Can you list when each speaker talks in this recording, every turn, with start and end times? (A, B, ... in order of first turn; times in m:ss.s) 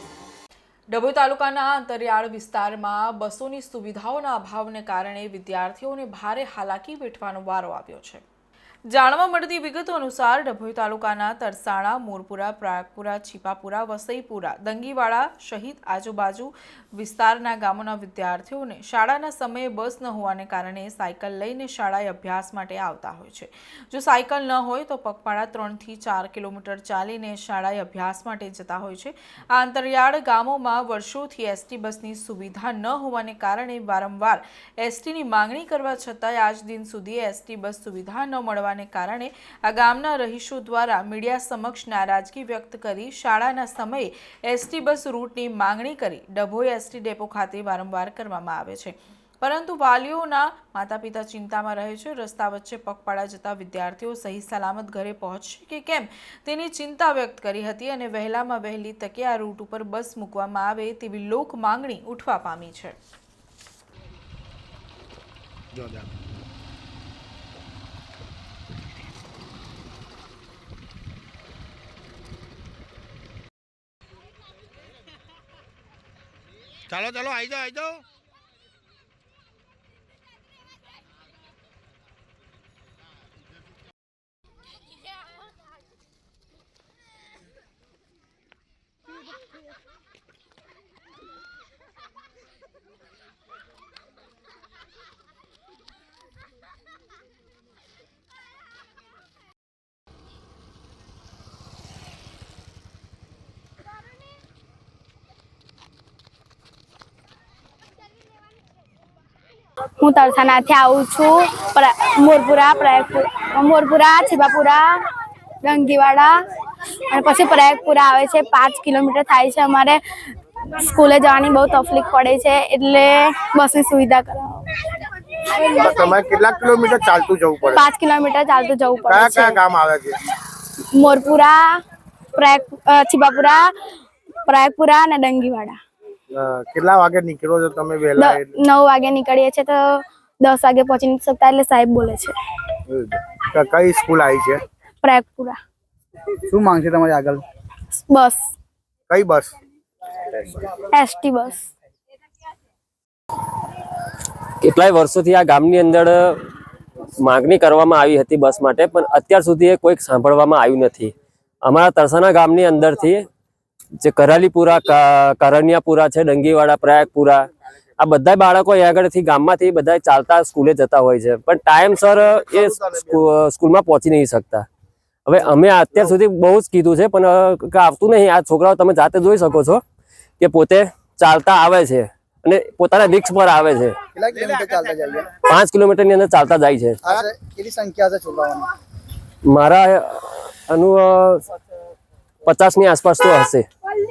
0:00.9-0:08.2 A
0:08.9-1:03.0 A
1:50.0-1:55.1 B
1:55.6-1:56.4 B
1:57.1-2:00.0 B
2:00.8-2:04.7 B
2:05.5-2:06.1 B
2:05.7-2:07.8 C
2:07.7-2:09.6 B
2:09.1-2:10.2 C
2:10.9-2:11.8 B
2:12.4-2:13.8 B
2:14.4-2:15.8 B
2:16.4-2:18.5 C
2:18.2-2:22.4 B
2:22.9-2:24.6 C
2:25.0-2:25.6 B
2:26.5-2:27.4 D
2:28.0-2:28.5 B
2:29.1-2:29.5 C
2:30.9-2:31.7 B
2:34.6-2:36.4 E
2:37.2-2:43.3 E
2:44.0-2:54.7 E
2:52.2-2:53.3 C
2:55.3-2:59.8 E
3:00.4-3:04.0 E
3:04.1-3:05.3 D
3:05.4-3:07.0 E
3:07.0-3:08.7 D
3:09.5-3:11.4 E
3:12.5-3:13.7 E